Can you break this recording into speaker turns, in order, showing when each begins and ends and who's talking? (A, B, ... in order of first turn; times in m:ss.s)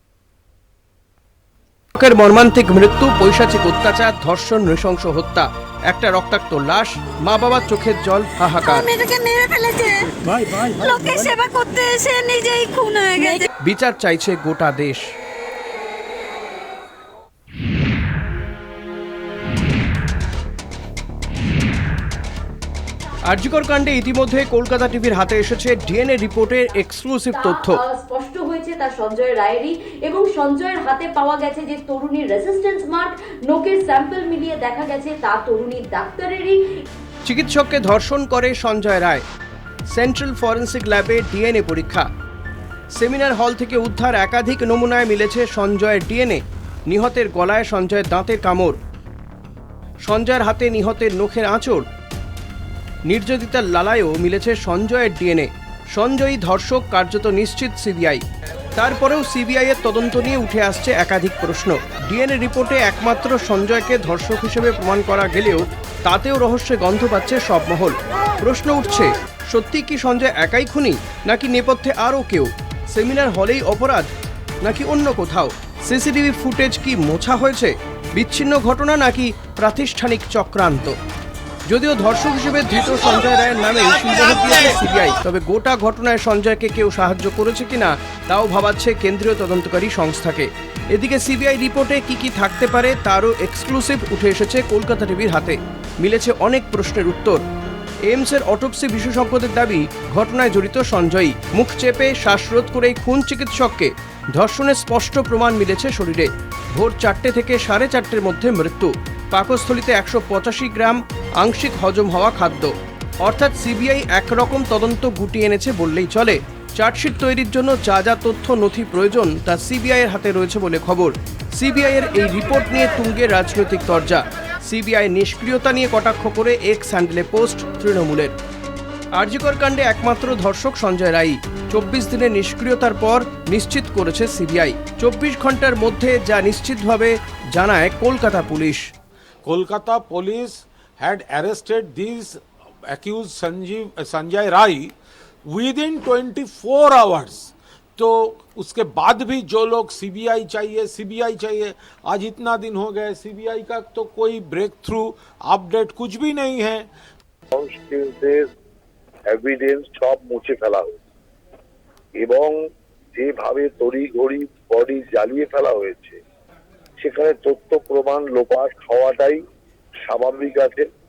0:02.0-0:08.9 A
0:08.6-0:13.4 B
0:13.2-0:15.0 A
0:23.3-0:27.8 A
0:27.3-0:36.6 C
0:37.3-0:39.2 A
0:39.9-0:42.1 A
0:43.0-0:48.8 A
0:50.1-0:51.9 A
0:53.1-0:58.2 A
0:58.8-1:14.1 A
1:14.6-1:21.0 A
1:21.7-1:37.4 A
1:38.1-2:08.3 A
2:09.2-2:18.9 A
2:19.4-2:24.9 D
2:25.5-2:36.9 D
2:37.5-2:38.5 E
2:39.3-2:41.0 E
2:42.2-2:42.6 E
2:43.2-2:46.2 E
2:47.0-2:49.4 E
2:50.0-2:50.9 E